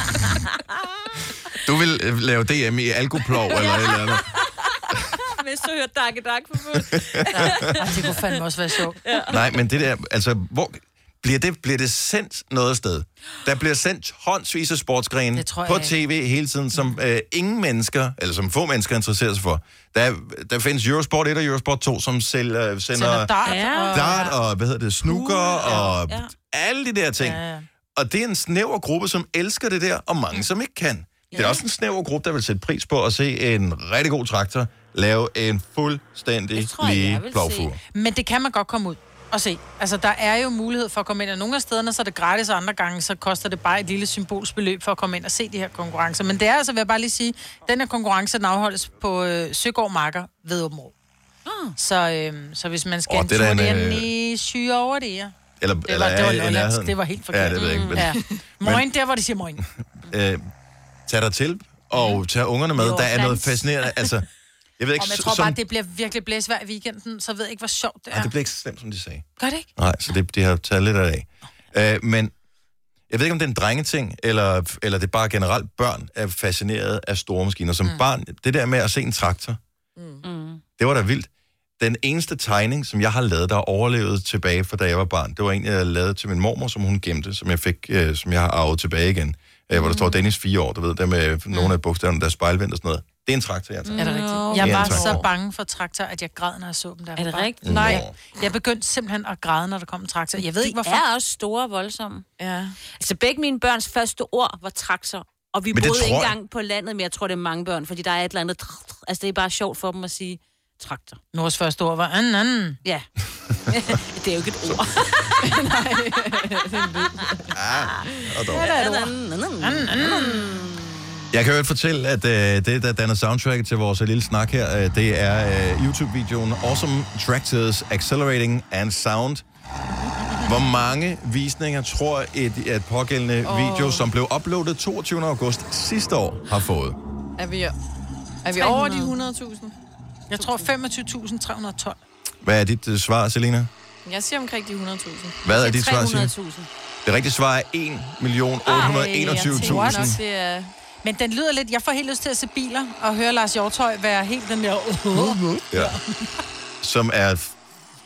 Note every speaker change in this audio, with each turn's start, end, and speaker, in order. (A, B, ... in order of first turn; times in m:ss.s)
0:01.6-0:04.3 A
0:03.5-0:08.3 B
0:06.8-0:07.7 A
0:07.4-0:09.0 C
0:09.0-0:09.6 B
0:09.3-0:27.4 A
0:15.4-0:15.9 C
0:22.9-0:24.3 C
0:23.4-0:24.2 B
0:25.0-0:26.3 B
0:27.2-0:27.6 C
0:28.0-0:37.8 A
0:31.3-0:31.6 B
0:36.5-0:37.7 B
0:37.9-0:50.9 C
0:51.4-0:51.7 B
0:51.8-0:55.3 C
0:53.1-0:54.1 A
0:55.6-0:58.9 A
0:55.8-0:59.6 C
0:57.5-0:58.0 B
1:00.0-1:00.5 A
1:01.1-1:04.3 A
1:02.7-1:03.6 C
1:04.8-1:05.6 A
1:05.0-1:08.3 C
1:08.1-1:12.3 A
1:09.4-1:09.7 C
1:13.1-1:19.6 A
1:20.0-1:20.2 D
1:20.2-1:20.6 B
1:20.8-1:35.2 A
1:29.7-1:30.2 B
1:33.8-1:35.1 B
1:34.0-1:41.0 C
1:34.8-1:35.2 D
1:37.2-1:38.0 B
1:37.6-1:38.1 A
1:37.7-1:38.0 D
1:40.6-1:42.2 B
1:42.4-1:42.8 D
1:43.0-1:51.2 B
1:45.7-1:46.3 A
1:51.3-1:52.8 C
1:53.7-1:55.4 B
1:54.6-1:55.0 A
1:55.4-1:57.5 D
1:57.5-1:58.7 A
1:58.5-2:00.6 C
1:58.6-2:01.2 B
2:01.3-2:09.4 A
2:10.4-2:17.0 A
2:13.4-2:14.1 D
2:17.4-2:17.7 D
2:18.4-2:19.7 D
2:18.6-2:19.1 B
2:20.3-2:22.0 C
2:20.4-2:20.6 B
2:22.4-2:23.7 A
2:24.0-2:25.4 D
2:25.4-2:26.3 A
2:25.4-2:26.7 B
2:27.0-2:30.2 A
2:28.7-2:30.1 C
2:28.7-2:30.7 D
2:31.0-2:36.3 C
2:35.1-2:36.0 A
2:36.8-2:37.6 A